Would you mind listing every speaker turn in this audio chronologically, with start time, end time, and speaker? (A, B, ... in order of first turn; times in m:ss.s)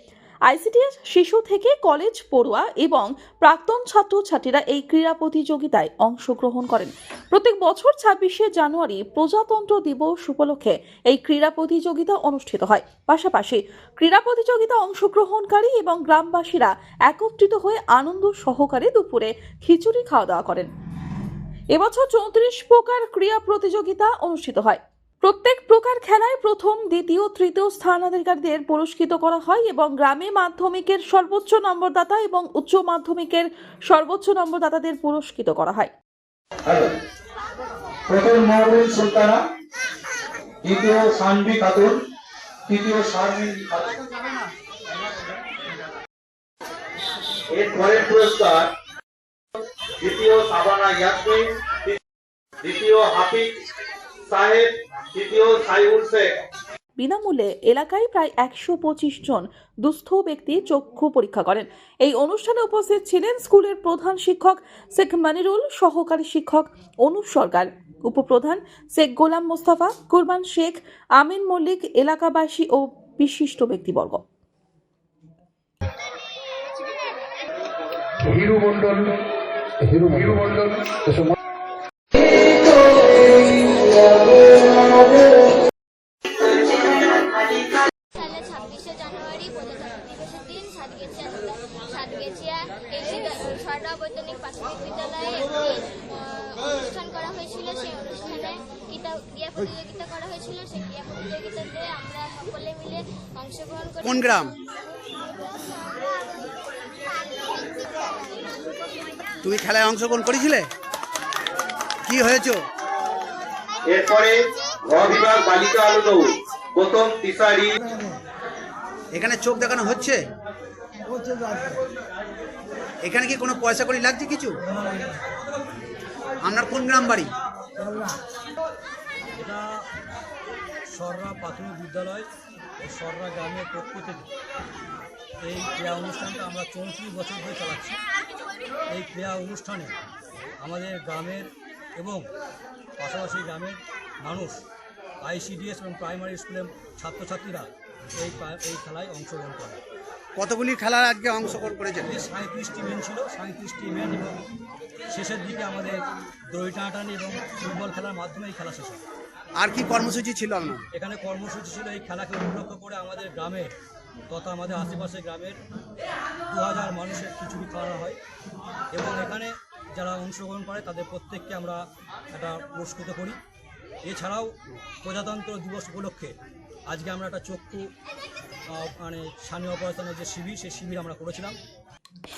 0:00.5-0:20.7 A
0:21.7-0:35.9 A
0:36.6-0:37.0 B
0:38.1-0:39.4 B
0:40.6-0:42.0 B
0:42.7-0:44.1 B
0:47.5-0:48.7 B
0:50.0-0:52.0 B
0:52.6-0:53.5 B
0:54.3-0:56.4 B
0:57.0-1:14.2 A
1:18.2-1:19.2 C
1:19.8-1:21.3 C
1:28.1-1:44.4 D
1:44.0-1:44.6 E
1:45.4-1:46.2 D
1:47.0-1:48.8 D
1:49.4-1:50.7 E
1:52.0-1:52.6 E
1:53.9-1:58.0 B
1:59.1-2:00.2 E
2:03.0-2:04.6 E
2:06.4-2:07.3 E
2:09.4-2:09.6 F
2:10.9-2:12.3 F
2:12.8-2:14.3 F
2:15.4-2:18.0 F
2:18.9-2:19.9 F
2:20.6-2:22.2 F
2:23.0-2:24.6 F
2:25.2-2:29.8 F
2:30.4-2:32.1 E
2:32.0-2:34.4 F
2:35.1-2:36.0 F
2:36.5-2:39.0 F
2:39.6-2:40.8 E
2:40.9-2:43.7 F
2:44.3-2:45.6 F
2:46.5-2:48.2 F
2:48.9-2:51.8 F
2:52.3-2:53.4 F
2:54.0-2:54.5 F
2:55.0-2:56.3 F
2:56.9-2:57.8 F
2:58.7-3:01.6 F